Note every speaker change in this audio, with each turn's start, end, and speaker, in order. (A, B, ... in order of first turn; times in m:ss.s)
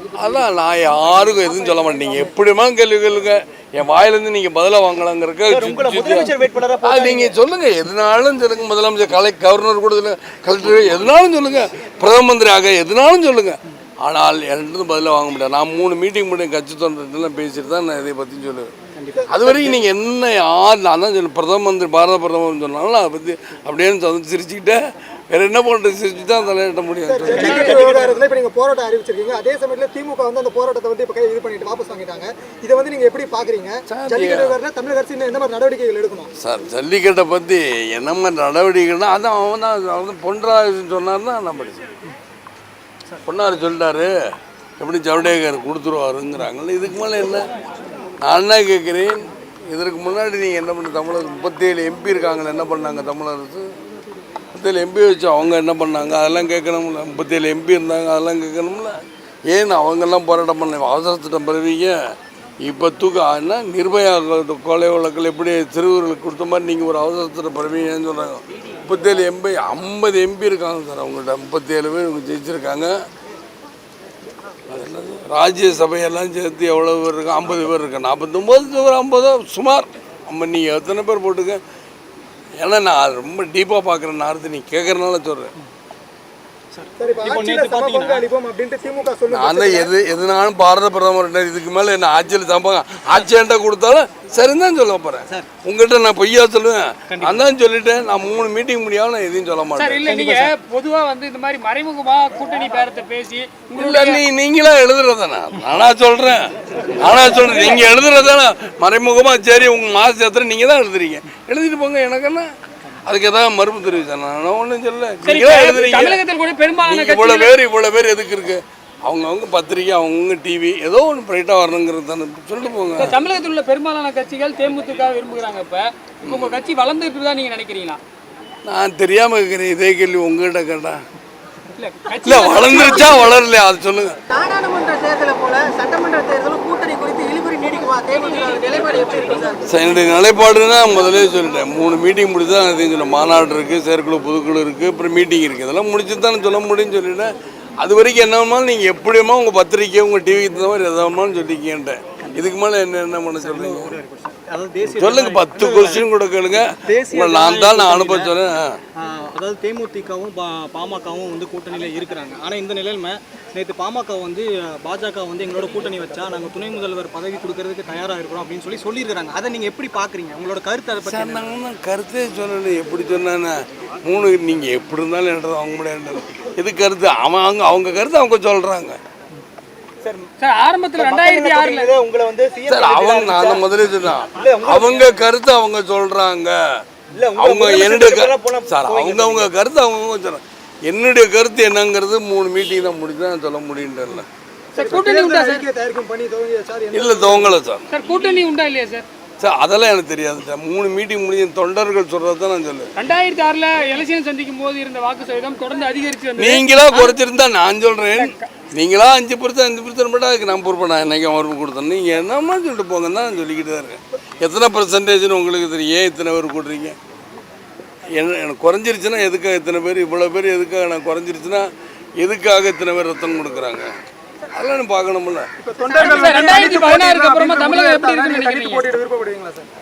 0:00.2-0:18.7 A
0:05.5-0:07.4 B
0:19.0-0:19.2 C
0:19.1-0:19.6 D
0:19.3-0:27.8 A
0:27.1-0:36.3 D
0:27.3-0:28.2 C
0:33.9-0:34.6 A
0:36.4-0:41.8 A
0:43.3-0:44.1 A
0:44.8-0:47.4 A
0:48.2-0:53.7 A
0:54.5-0:58.9 A
0:59.5-1:01.9 A
1:02.6-1:12.9 A
1:14.7-1:21.6 A
1:22.6-1:25.5 A
1:26.7-1:28.2 C
1:27.0-1:29.9 D
1:29.3-1:40.2 A
1:37.1-1:37.5 C
1:39.8-1:44.2 E
1:40.1-1:40.5 C
1:43.8-1:52.5 A
1:53.0-1:56.2 A
1:55.2-1:57.6 E
1:56.8-2:03.2 A
2:03.0-2:08.0 E
2:06.2-2:06.6 A
2:08.6-2:11.0 A
2:11.8-2:13.4 E
2:12.2-2:14.2 A
2:14.3-2:19.6 F
2:18.2-2:18.6 E
2:18.6-2:19.5 C
2:18.8-2:27.3 A
2:27.8-2:34.0 A
2:32.2-2:32.5 C
2:33.4-2:36.0 C
2:34.9-2:38.8 A
2:36.8-2:38.4 C
2:39.0-2:51.4 C
2:51.0-2:59.0 A
3:00.0-3:00.3 B
3:00.4-3:01.9 E
3:01.0-3:03.6 B
3:02.7-3:06.6 A
3:04.4-3:05.2 B
3:07.1-3:09.5 B
3:07.4-3:14.3 A
3:14.7-3:15.6 E
3:14.8-3:17.6 D
3:16.9-3:17.9 A
3:17.9-3:19.1 E
3:19.4-3:22.9 A
3:23.0-3:27.2 E
3:26.4-3:37.0 A
3:28.2-3:28.5 E
3:38.2-3:41.7 A
3:42.2-3:43.9 A
3:44.5-3:45.5 A
3:45.6-3:49.7 D
3:45.9-3:48.9 E
3:46.0-3:46.4 A